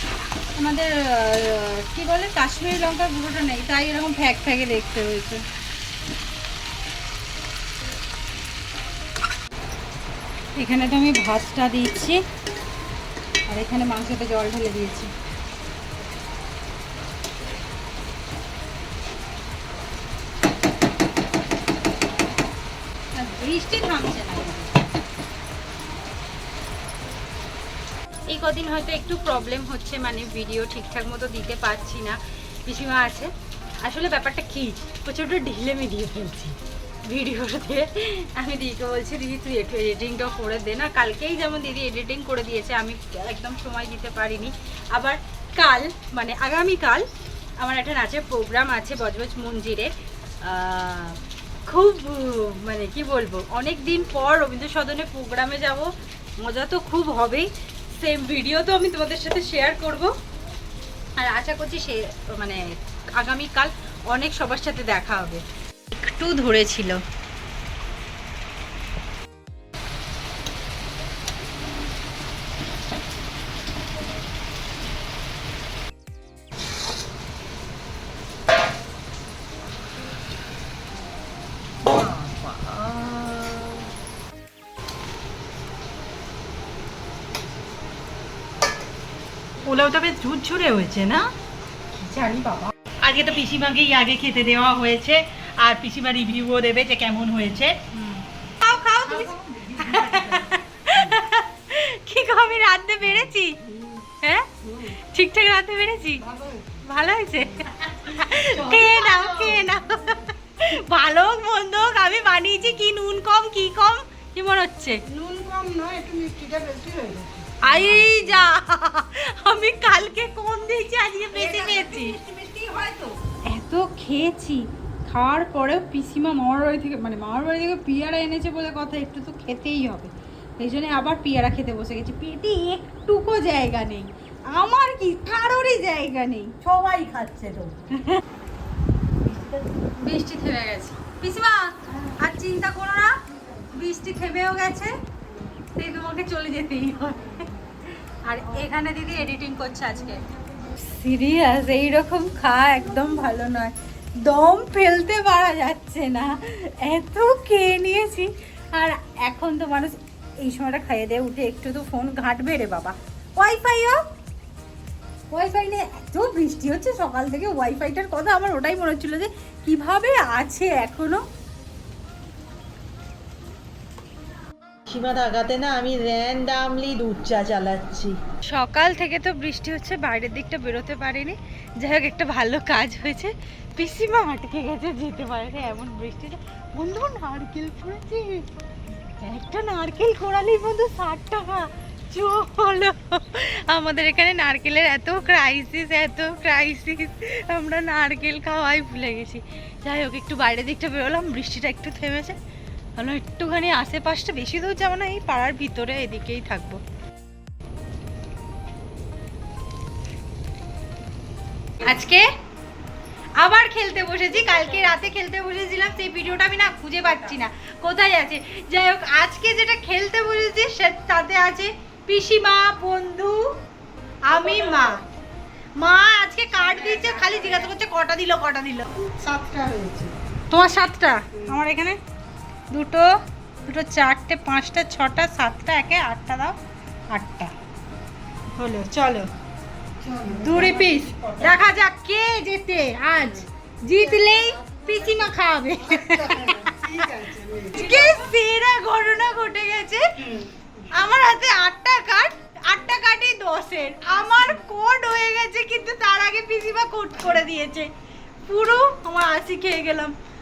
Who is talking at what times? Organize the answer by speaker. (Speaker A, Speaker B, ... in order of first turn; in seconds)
Speaker A: 0.5-5.4, 10.5-12.2, 13.5-15.1, 23.1-24.8, 28.3-33.3, 33.8-47.0, 47.6-60.1, 61.1-67.0, 91.9-92.7, 98.0-103.6, 104.2-106.2, 106.8-115.0, 117.6-122.2, 123.5-136.5, 139.9-143.1, 143.7-144.9, 145.7-147.5, 148.2-150.2, 150.7-164.0, 165.3-171.2, 178.4-188.5, 189.1-202.3, 202.9-206.8, 211.8-212.3, 213.4-223.5, 224.2-225.0, 225.8-228.9, 230.5-232.0, 232.7-233.1, 233.7-236.6, 237.1-237.5, 238.5-239.3, 240.4-246.9, 247.7-250.1, 250.9-257.9, 258.4-260.1
Speaker B: 81.8-83.9, 89.6-91.3, 93.0-97.8, 99.1-100.5, 108.2-109.7, 121.4-122.0, 136.6-137.8, 139.2-139.7, 174.9-178.1
Speaker C: 106.2-106.8, 115.1-118.3, 121.5-123.1, 227.0-227.4, 228.9-230.1, 240.0-241.5, 243.9-248.0